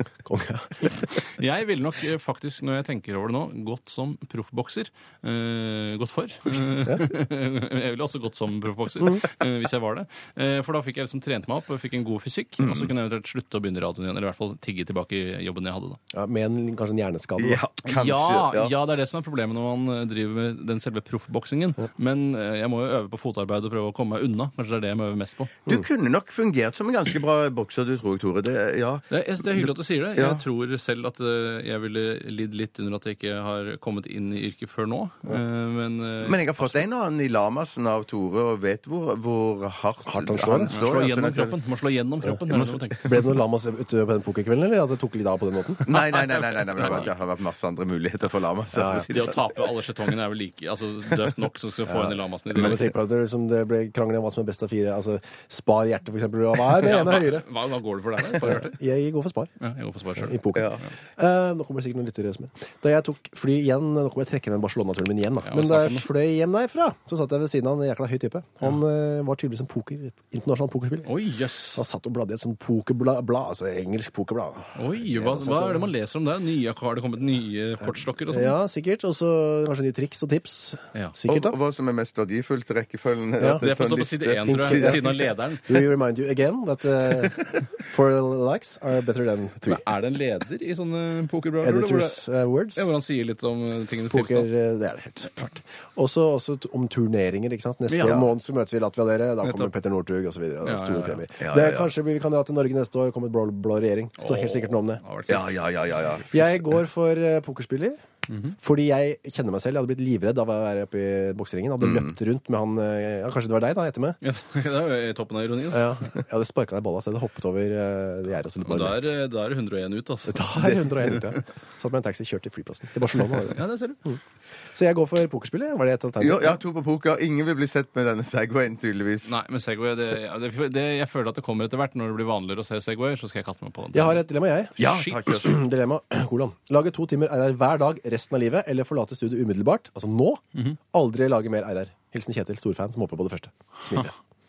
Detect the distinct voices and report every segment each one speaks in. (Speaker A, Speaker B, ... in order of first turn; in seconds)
Speaker A: 0.2-1.0, 16.1-17.6, 40.1-40.7, 43.0-45.9, 48.7-49.1, 51.9-57.5, 58.3-59.5, 60.2-71.1, 71.7-75.9, 78.3-81.6, 83.4-83.6, 84.4-89.8, 91.6-92.9, 94.1-105.0, 106.3-108.0, 108.6-114.2, 115.7-119.1, 120.3-124.2, 124.7-126.6, 133.9-144.2
Speaker B: 1.2-16.0, 17.8-25.5, 29.1-36.8, 40.7-43.3, 45.9-47.1, 49.0-52.9, 56.8-58.8, 59.6-60.9, 65.5-66.1, 71.0-71.8, 74.8-78.5, 83.6-85.8, 89.6-92.2, 92.7-94.5, 97.9-98.2, 99.4-99.7, 100.6-101.2, 104.2-105.6, 108.3-108.5, 114.2-115.9, 118.6-120.8, 123.4-124.0, 129.2-134.2, 134.8-135.2
Speaker C: 12.6-12.9, 17.4-18.7, 25.7-30.4, 36.2-41.6, 42.5-43.0, 45.8-49.5, 60.5-60.8, 81.3-85.1, 101.4-101.9, 105.3-106.5, 111.8-112.1, 126.2-129.4, 134.8-135.6